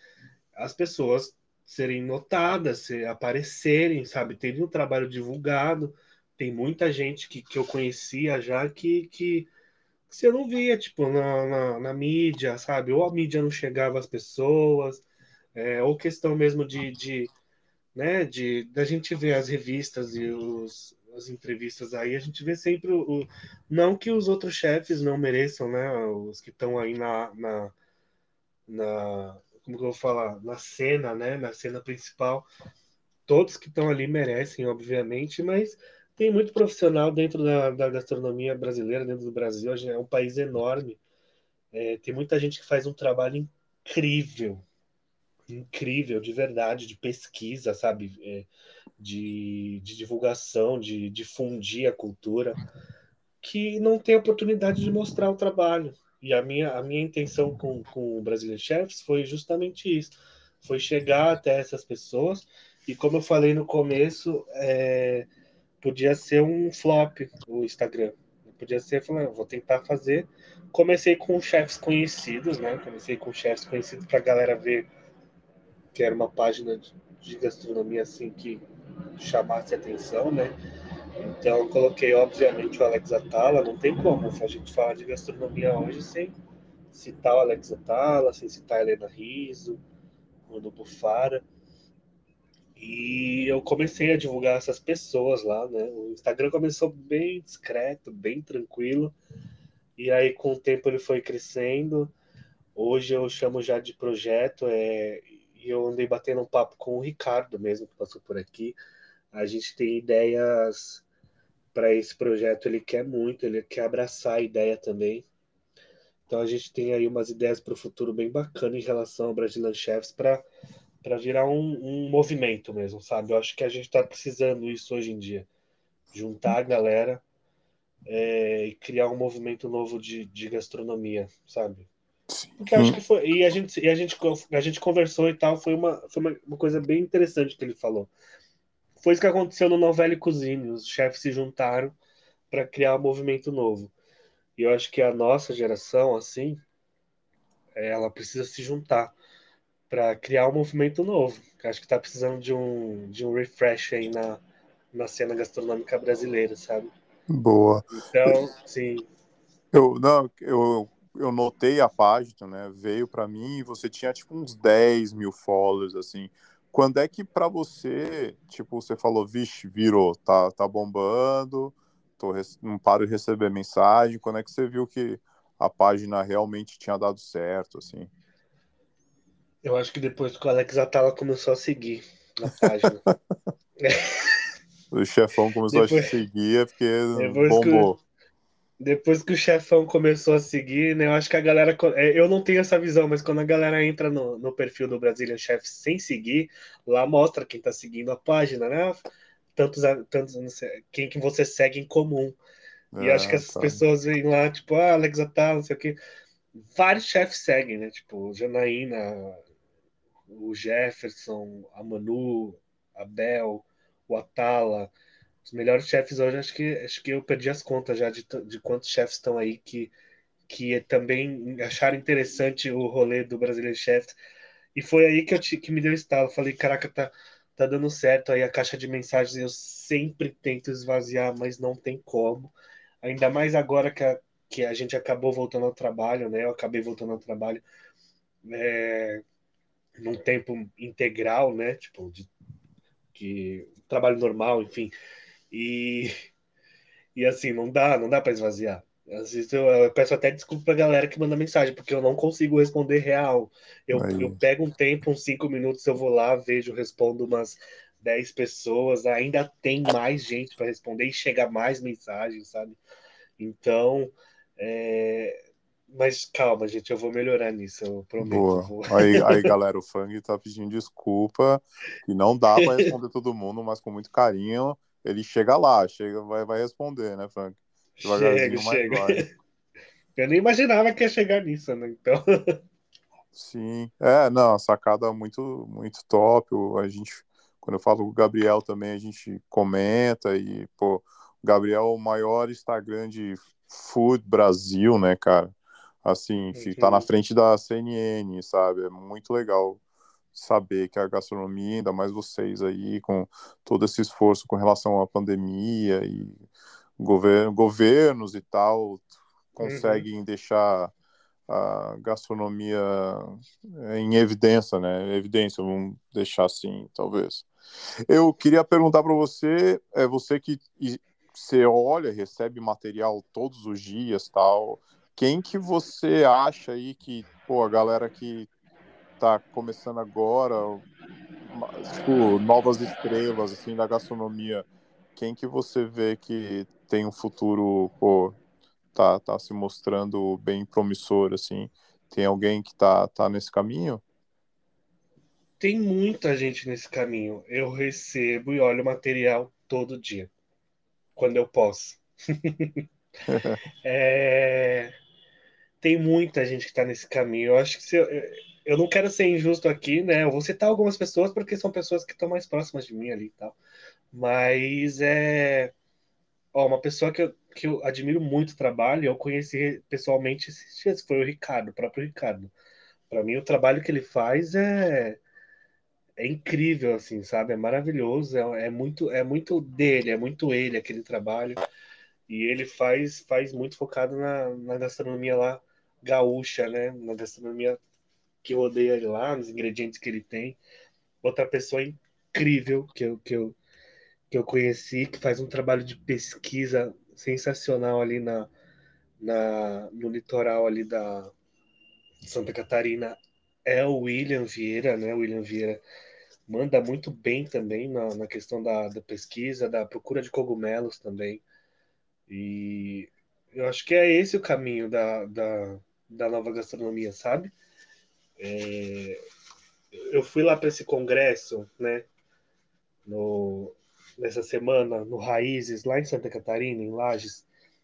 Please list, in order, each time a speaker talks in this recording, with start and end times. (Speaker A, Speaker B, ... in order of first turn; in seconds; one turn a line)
Speaker A: 0.6-9.5
Speaker A: 10.1-17.3
Speaker A: 17.9-27.7
Speaker A: 28.7-32.5
Speaker A: 33.3-41.0
Speaker A: 41.7-44.6
Speaker A: 45.5-52.6
Speaker A: 53.4-65.3
Speaker A: 65.8-74.9
Speaker A: 75.9-78.6
Speaker A: 79.2-80.5
Speaker A: 81.2-86.4
Speaker A: 86.9-89.8
Speaker A: 90.5-91.4
Speaker A: 92.8-99.2
Speaker A: 100.0-102.1
Speaker A: 102.8-108.8
Speaker A: 109.3-111.0
Speaker A: 111.7-115.3
Speaker A: 116.3-120.5
Speaker A: 121.0-125.5
Speaker A: 126.1-127.2
Speaker A: 128.1-131.9
Speaker B: 132.3-133.0
Speaker A: 132.6-138.1
Speaker A: 139.0-141.9
Speaker A: 142.5-143.9
Speaker A: 144.6-146.6
Speaker A: 147.7-149.1
Speaker A: 149.9-154.4
Speaker A: 154.9-156.9
Speaker B: 157.3-158.4
Speaker A: 157.9-159.1
Speaker B: 159.7-178.1
Speaker A: 179.6-183.0
Speaker A: 183.8-184.4
Speaker B: 184.9-188.0
Speaker A: 185.7-186.1
Speaker A: 187.1-187.9
Speaker A: 188.8-202.4
Speaker B: 202.9-203.8
Speaker A: 203.0-206.0
Speaker A: 206.6-209.4
Speaker A: 210.3-214.9
Speaker A: 215.4-219.9
Speaker A: 220.5-224.2
Speaker A: 224.7-237.6
Speaker A: 238.4-239.2
Speaker A: 240.0-242.3
Speaker A: 243.1-244.9
Speaker A: 245.5-246.1
Speaker A: 247.1-262.8
Speaker B: 253.9-254.4
Speaker A: 263.4-265.4
Speaker A: 265.9-269.4
Speaker B: 268.2-279.2
Speaker A: 272.6-272.9
Speaker A: 278.0-279.3
Speaker A: 280.2-282.6
Speaker B: 283.3-299.8
Speaker A: 296.5-297.1
Speaker B: 300.3-306.4
Speaker B: 307.0-310.9
Speaker A: 309.6-310.1
Speaker B: 311.5-317.5
Speaker B: 318.1-328.5
Speaker B: 329.2-330.8
Speaker B: 331.4-338.4
Speaker B: 338.9-344.0
Speaker A: 345.6-350.3
Speaker A: 351.2-352.8
Speaker B: 353.3-353.6
Speaker A: 353.8-354.9
Speaker A: 355.8-363.6
Speaker A: 364.1-365.7
Speaker A: 366.5-372.5
Speaker A: 373.1-375.2
Speaker A: 376.2-381.6
Speaker A: 382.3-387.8
Speaker A: 388.4-390.6
Speaker A: 391.2-393.6
Speaker A: 394.3-398.5
Speaker A: 399.2-401.3
Speaker A: 402.2-405.8
Speaker A: 406.5-411.4
Speaker A: 412.3-417.5
Speaker A: 418.4-419.2
Speaker A: 419.9-422.1
Speaker A: 423.1-427.5